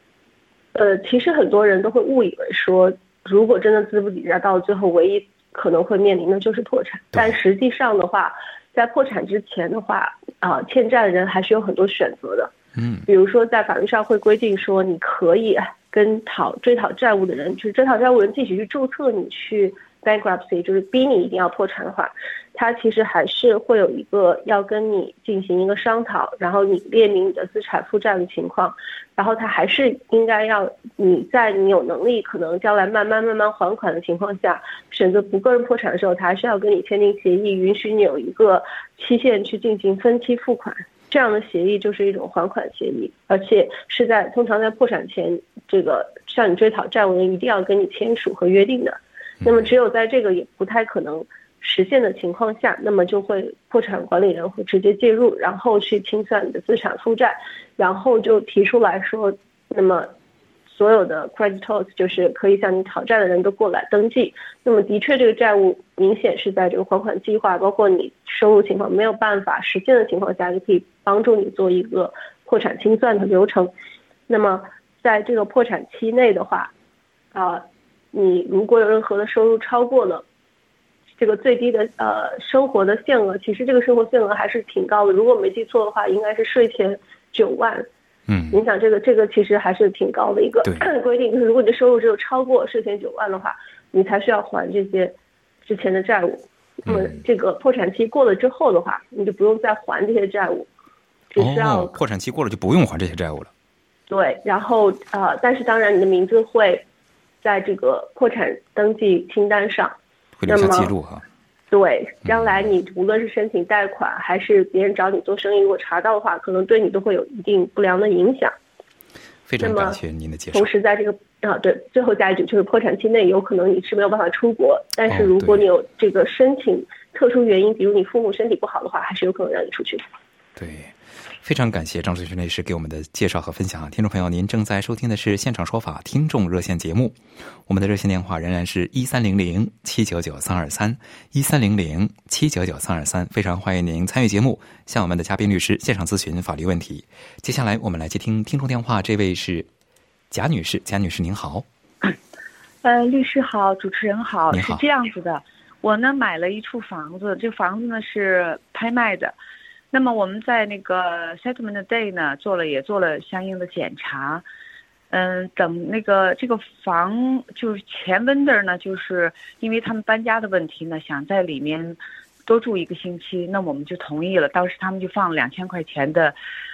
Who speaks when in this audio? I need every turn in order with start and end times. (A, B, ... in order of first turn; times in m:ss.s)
0:00.8-0:12.5 A
0:12.8-0:13.1 B
0:13.1-1:00.1 A
1:00.7-1:13.7 A
1:14.3-1:16.7 A
1:17.3-1:20.2 A
1:21.2-1:27.9 A
1:28.3-1:28.6 B
1:28.5-1:35.1 A
1:35.7-1:40.7 A
1:36.9-1:37.2 B
1:41.3-1:42.0 A
1:41.4-1:43.5 B
1:44.1-1:46.8 A
1:47.4-1:50.0 A
1:50.4-1:51.2 B
1:50.5-1:50.9 A
1:51.7-1:58.5 A
1:52.2-1:52.6 B
1:59.5-2:00.7 B
1:59.6-2:00.0 A
2:00.5-2:10.0 A
2:05.0-2:05.6 B
2:10.6-2:29.7 B
2:30.3-2:31.7 B
2:32.8-2:39.4 C
2:34.5-2:34.8 B
2:39.9-2:44.4 C
2:45.1-2:56.4 C